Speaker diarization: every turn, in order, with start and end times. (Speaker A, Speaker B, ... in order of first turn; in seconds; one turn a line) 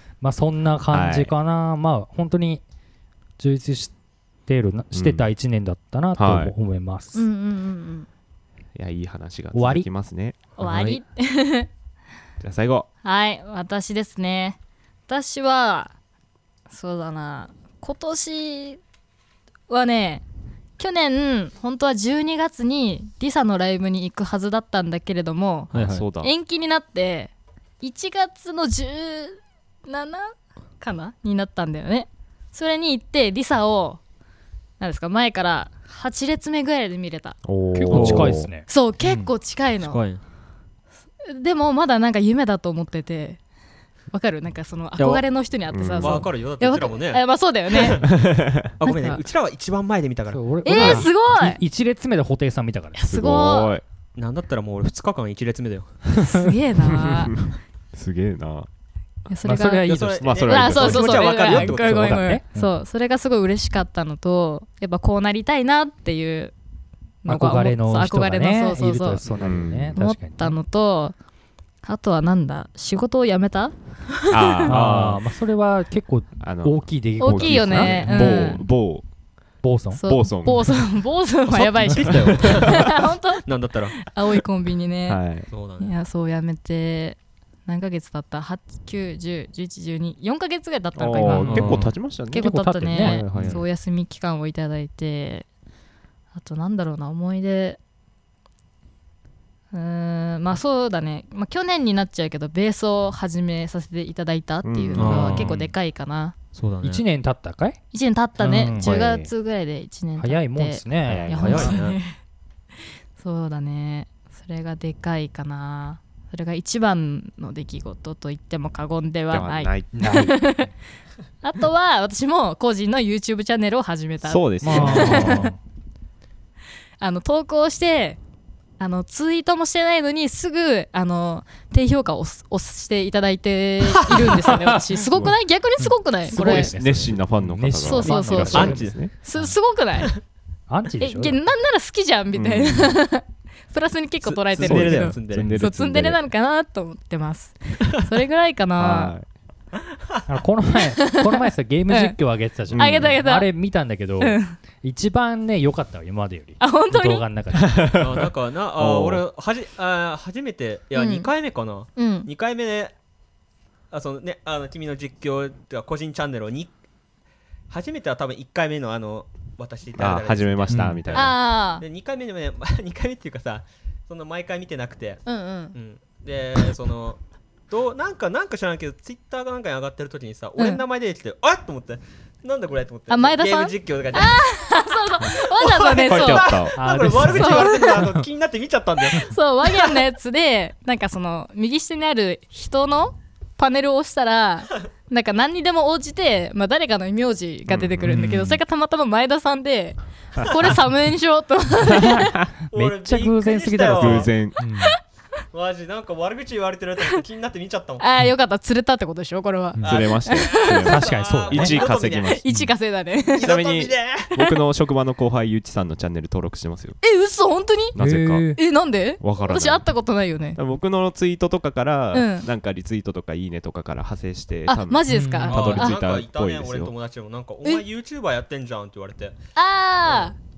Speaker A: 0.2-2.6
Speaker B: 0.9-1.3
Speaker A: 3.4-3.9
Speaker A: 4.5-7.2
Speaker B: 4.9-5.3
Speaker B: 6.2-6.5
Speaker C: 7.2-8.1
Speaker B: 8.8-11.0
Speaker A: 9.5-9.9
Speaker C: 10.6-11.7
Speaker B: 12.4-12.9
Speaker C: 13.0-15.9
Speaker C: 16.7-18.8
Speaker C: 19.7-20.2
Speaker C: 20.8-34.0
Speaker D: 25.7-26.1
Speaker B: 25.7-26.3
Speaker C: 34.8-37.4
Speaker B: 37.5-38.5
Speaker A: 37.7-39.3
Speaker D: 37.9-38.4
Speaker C: 38.7-40.0
Speaker D: 39.8-40.2
Speaker C: 41.2-43.4
Speaker C: 44.1-48.1
Speaker D: 45.0-45.2
Speaker B: 45.7-46.3
Speaker D: 46.0-48.1
Speaker B: 48.1-48.7
Speaker D: 48.8-51.0
Speaker C: 48.8-49.2
Speaker A: 50.3-53.0
Speaker C: 50.6-51.6
Speaker B: 50.8-51.0
Speaker C: 53.0-53.7
Speaker B: 53.0-53.8
Speaker D: 54.2-56.0
Speaker C: 56.2-57.4
Speaker B: 56.9-58.7
Speaker C: 59.3-59.9
Speaker A: 59.4-62.7
Speaker D: 59.8-62.2
Speaker B: 60.2-61.3
Speaker C: 60.4-66.5
Speaker C: 67.2-69.2
Speaker A: 67.3-70.6
Speaker B: 69.4-70.0
Speaker C: 70.0-71.2
Speaker C: 71.8-73.7
Speaker B: 74.3-75.2
Speaker C: 74.3-74.7
Speaker D: 74.7-75.2
Speaker A: 74.7-78.6
Speaker B: 76.4-79.1
Speaker C: 77.2-78.7
Speaker A: 79.6-80.0
Speaker C: 80.0-83.5
Speaker B: 80.0-80.8
Speaker D: 81.5-82.9
Speaker B: 82.0-82.9
Speaker D: 83.5-84.1
Speaker C: 84.0-85.2
Speaker B: 85.1-85.5
Speaker D: 85.5-86.0
Speaker C: 85.8-95.5
Speaker B: 91.0-93.6
Speaker A: 91.3-91.7
Speaker D: 91.5-91.9
Speaker A: 92.3-93.3
Speaker C: 96.4-97.8
Speaker C: 99.7-106.3
Speaker B: 104.6-105.6
Speaker D: 105.0-105.7
Speaker D: 106.5-107.0
Speaker A: 106.8-107.8
Speaker C: 107.9-112.2
Speaker A: 108.4-108.9
Speaker B: 108.8-109.3
Speaker A: 110.2-111.8
Speaker B: 111.1-111.8
Speaker D: 111.4-112.0
Speaker C: 113.2-120.7
Speaker B: 119.3-120.2
Speaker A: 120.0-120.3
Speaker C: 121.4-125.5
Speaker B: 124.2-125.5
Speaker A: 124.6-125.6
Speaker C: 127.0-128.2
Speaker C: 128.8-136.7
Speaker D: 134.1-134.5
Speaker B: 135.1-135.3
Speaker A: 135.8-139.6
Speaker B: 136.3-139.1
Speaker C: 137.8-140.2
Speaker D: 138.4-139.0
Speaker A: 140.7-141.4
Speaker C: 141.0-149.2
Speaker B: 142.3-143.0
Speaker D: 144.2-145.6
Speaker B: 144.6-146.2
Speaker A: 145.3-145.6
Speaker B: 148.8-149.3
Speaker A: 150.3-157.8
Speaker C: 150.8-152.2
Speaker B: 152.7-153.2
Speaker C: 152.8-153.5
Speaker C: 154.2-154.6
Speaker C: 156.6-157.2
Speaker B: 157.6-159.2
Speaker D: 158.0-162.9
Speaker C: 160.9-161.3
Speaker C: 162.0-162.3
Speaker D: 163.9-166.7
Speaker D: 167.7-184.4
Speaker B: 170.0-171.4
Speaker A: 170.7-171.1
Speaker C: 171.1-171.8
Speaker C: 175.3-175.8
Speaker C: 183.1-188.1
Speaker D: 185.2-190.0
Speaker B: 186.1-186.8
Speaker A: 186.8-188.3
Speaker C: 189.1-202.4
Speaker B: 197.7-198.3
Speaker A: 198.1-198.6
Speaker B: 200.4-200.7
Speaker B: 201.9-202.3
Speaker A: 202.7-204.9
Speaker D: 202.7-204.3
Speaker B: 203.9-204.6
Speaker D: 205.5-208.0
Speaker C: 208.0-211.1
Speaker B: 209.8-212.4
Speaker D: 209.8-212.4
Speaker A: 210.8-211.8
Speaker C: 211.8-213.5
Speaker A: 212.5-212.7
Speaker D: 213.3-214.5
Speaker B: 213.4-217.0
Speaker C: 217.0-218.0
Speaker B: 217.9-218.5
Speaker A: 218.0-218.6
Speaker C: 218.6-220.6
Speaker B: 219.2-219.9
Speaker B: 220.6-226.9
Speaker C: 222.1-222.5
Speaker C: 224.7-226.0
Speaker A: 225.1-225.6
Speaker D: 225.5-229.4
Speaker C: 229.6-230.3
Speaker D: 230.0-230.3